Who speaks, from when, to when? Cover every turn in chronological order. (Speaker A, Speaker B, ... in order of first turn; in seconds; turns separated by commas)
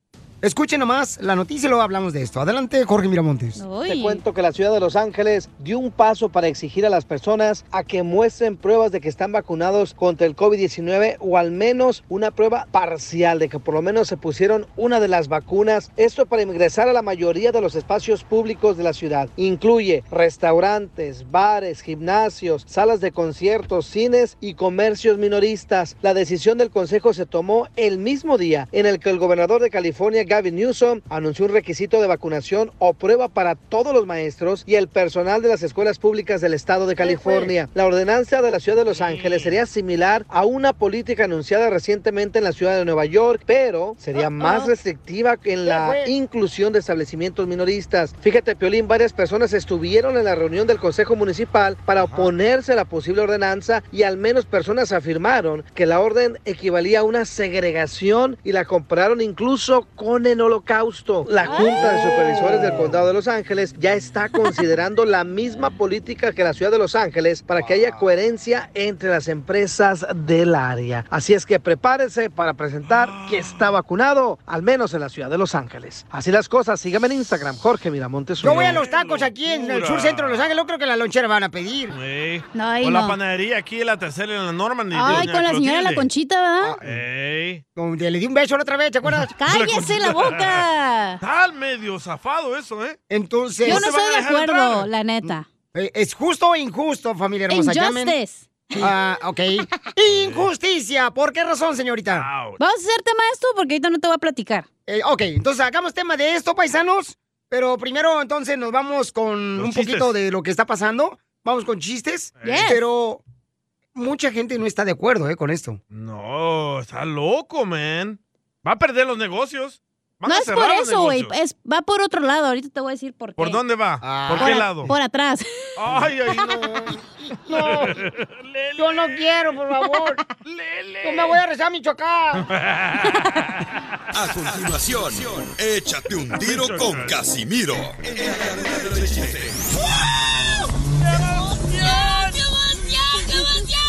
Speaker A: 0.4-3.6, Speaker B: 3.6-4.2, Speaker C: 3.8-78.8, Speaker D: 38.9-39.5, Speaker B: 44.2-44.7, Speaker A: 45.6-46.1, Speaker B: 61.4-62.3, Speaker D: 72.8-73.7, Speaker A: 78.4-81.9, Speaker D: 78.4-80.5, Speaker D: 81.9-86.1, Speaker B: 82.5-83.2, Speaker B: 84.9-86.8, Speaker A: 85.0-85.3, Speaker A: 86.6-86.9, Speaker D: 86.8-87.6, Speaker A: 87.8-89.3, Speaker B: 89.3-91.2, Speaker D: 89.4-90.6, Speaker D: 91.2-93.0, Speaker A: 93.1-93.9, Speaker D: 93.6-94.9, Speaker B: 93.6-95.5, Speaker A: 95.7-98.2, Speaker B: 97.5-98.9, Speaker A: 98.8-102.3, Speaker D: 100.1-100.5, Speaker D: 102.1-102.6, Speaker B: 102.6-104.7, Speaker A: 104.9-113.2, Speaker D: 109.5-110.1, Speaker D: 112.4-112.7, Speaker B: 112.4-112.8, Speaker A: 113.9-115.8, Speaker D: 115.9-121.3, Speaker B: 120.2-123.6, Speaker D: 123.4-124.9, Speaker A: 124.0-124.9, Speaker B: 124.3-125.5, Speaker D: 125.8-126.6, Speaker A: 126.4-128.0, Speaker D: 127.5-129.5, Speaker A: 128.8-130.2, Speaker D: 130.4-131.4, Speaker A: 131.0-132.4, Speaker D: 132.3-133.2, Speaker E: 134.1-139.6, Speaker D: 136.4-137.2, Speaker D: 138.2-139.0, Speaker D: 141.1-142.5